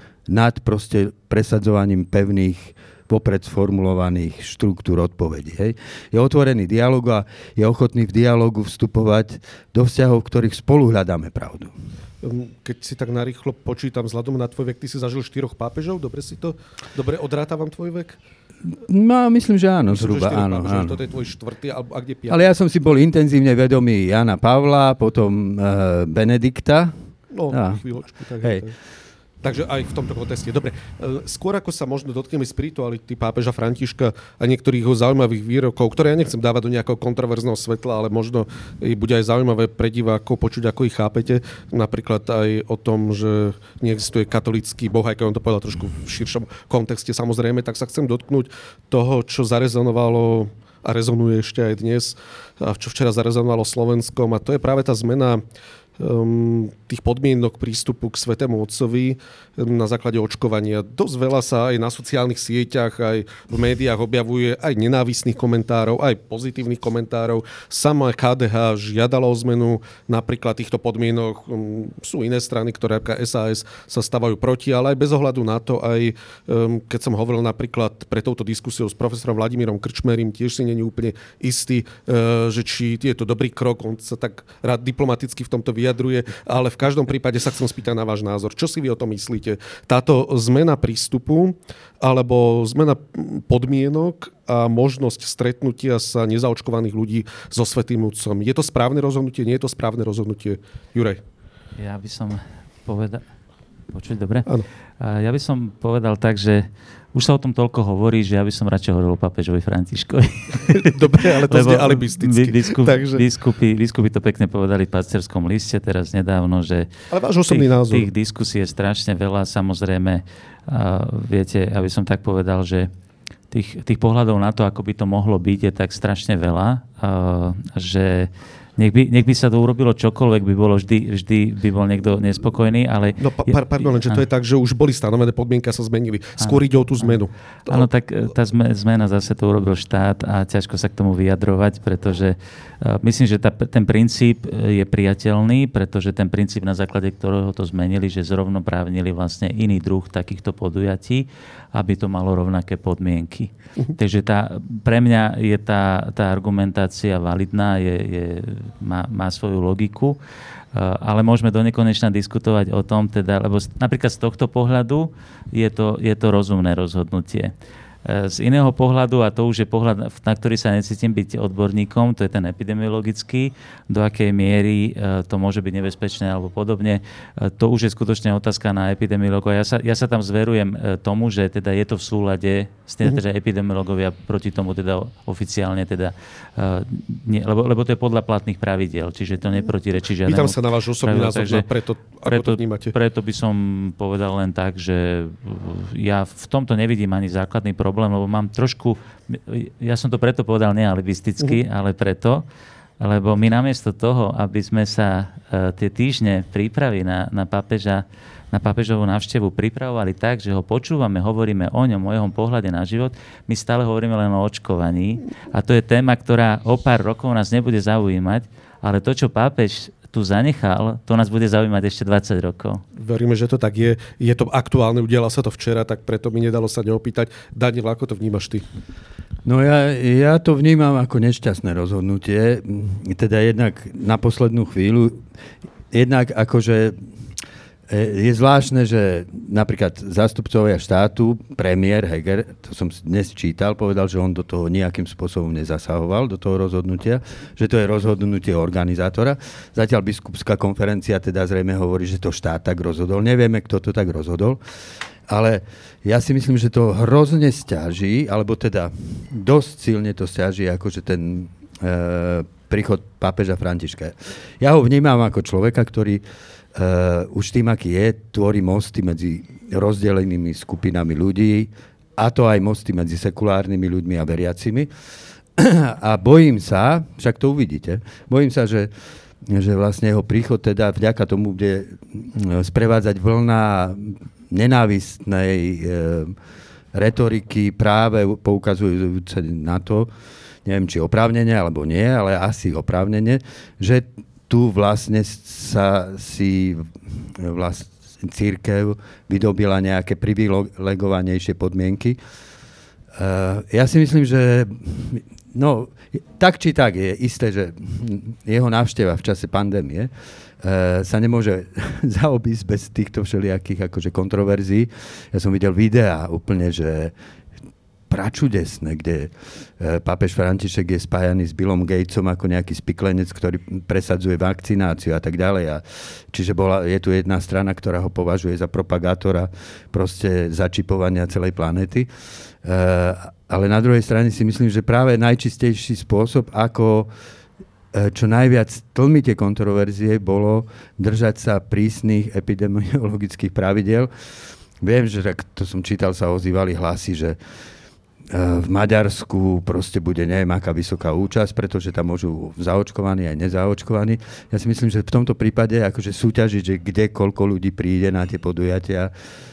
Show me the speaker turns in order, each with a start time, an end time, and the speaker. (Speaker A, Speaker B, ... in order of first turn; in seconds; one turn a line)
Speaker A: 0.3-11.7
Speaker B: 12.2-18.2
Speaker A: 18.7-21.0
Speaker B: 19.9-22.4
Speaker A: 22.3-26.9
Speaker B: 27.3-28.7
Speaker A: 27.5-27.8
Speaker B: 29.4-55.4
Speaker B: 56.0-101.2
Speaker C: 101.8-103.2
Speaker C: 103.9-116.9
Speaker B: 110.7-113.2
Speaker B: 117.1-118.1
Speaker C: 117.5-122.9
Speaker C: 123.5-134.2
Speaker B: 133.2-137.9
Speaker C: 136.4-160.2
Speaker C: 160.7-167.5
Speaker C: 168.0-191.7
Speaker B: 190.2-192.9
Speaker C: 192.2-202.4
Speaker C: 203.0-222.8
Speaker B: 222.9-228.6
Speaker A: 229.4-235.2
Speaker A: 235.9-237.0
Speaker A: 237.9-254.6
Speaker A: 255.3-266.2
Speaker A: 266.7-274.9
Speaker A: 275.6-278.9
Speaker A: 279.4-286.4
Speaker A: 286.9-290.1
Speaker A: 290.6-302.2
Speaker A: 303.1-310.1
Speaker A: 310.6-317.1
Speaker A: 318.1-332.1
Speaker A: 332.6-337.1
Speaker A: 337.9-344.1
Speaker A: 344.8-347.4
Speaker A: 348.3-359.1